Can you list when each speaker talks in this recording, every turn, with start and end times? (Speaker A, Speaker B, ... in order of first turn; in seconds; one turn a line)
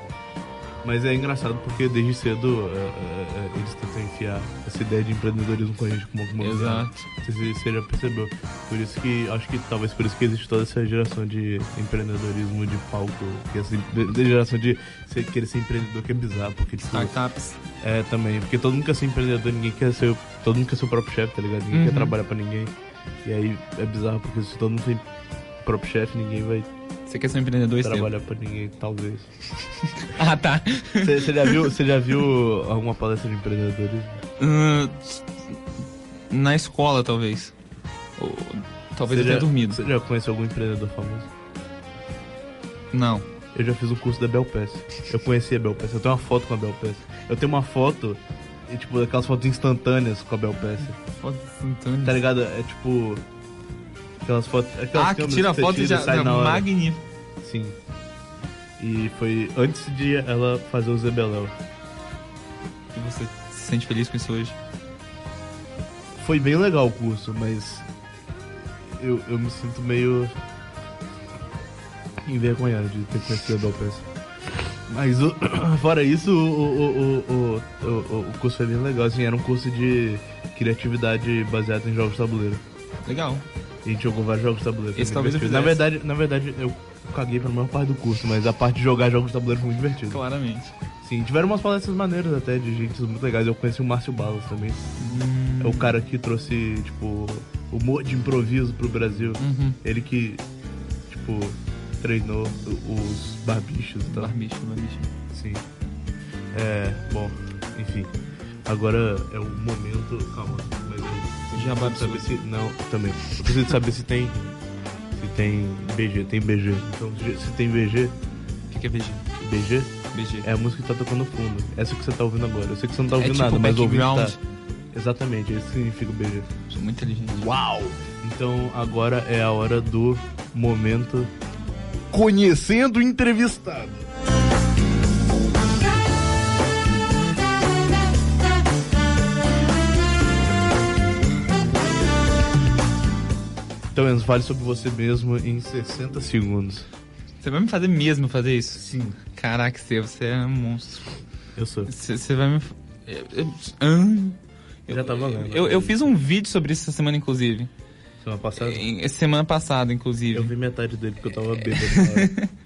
Speaker A: 0.8-17.1
Speaker B: 6.4-7.1
Speaker B: 16.8-17.6
Speaker A: 17.8-22.7
Speaker B: 21.7-22.1
Speaker A: 23.2-25.1
Speaker A: 25.6-26.7
Speaker B: 27.1-28.1
Speaker A: 27.8-29.3
Speaker B: 29.6-31.7
Speaker A: 31.0-34.2
Speaker B: 34.4-35.6
Speaker B: 36.3-37.5
Speaker B: 38.2-39.8
Speaker A: 39.0-41.3
Speaker B: 42.9-43.2
Speaker A: 43.5-51.0
Speaker B: 51.2-52.2
Speaker A: 52.0-53.2
Speaker A: 54.2-56.7
Speaker B: 54.9-57.0
Speaker A: 57.4-57.8
Speaker A: 58.8-61.6
Speaker B: 62.9-64.6
Speaker A: 66.2-67.9
Speaker A: 68.8-70.3
Speaker A: 72.2-74.1
Speaker A: 74.9-82.6
Speaker B: 83.0-83.5
Speaker A: 83.8-90.2
Speaker B: 84.9-85.8
Speaker B: 90.1-90.8
Speaker A: 91.0-94.9
Speaker B: 95.0-95.9
Speaker A: 95.6-100.4
Speaker B: 99.4-99.8
Speaker A: 101.1-104.3
Speaker B: 104.1-105.1
Speaker A: 105.3-105.6
Speaker A: 106.5-108.2
Speaker A: 108.7-114.6
Speaker B: 111.5-112.4
Speaker A: 115.1-118.2
Speaker B: 118.7-119.3
Speaker A: 119.4-124.4
Speaker B: 120.1-120.5
Speaker B: 123.2-124.4
Speaker A: 124.9-126.5
Speaker B: 126.7-127.5
Speaker A: 127.3-131.3
Speaker A: 132.1-134.1
Speaker A: 143.9-146.9
Speaker B: 147.4-151.1
Speaker A: 148.7-149.2
Speaker A: 151.5-151.9
Speaker B: 151.9-157.7
Speaker A: 154.9-156.1
Speaker A: 158.2-158.8
Speaker B: 158.5-160.5
Speaker A: 160.3-162.3
Speaker B: 161.5-162.5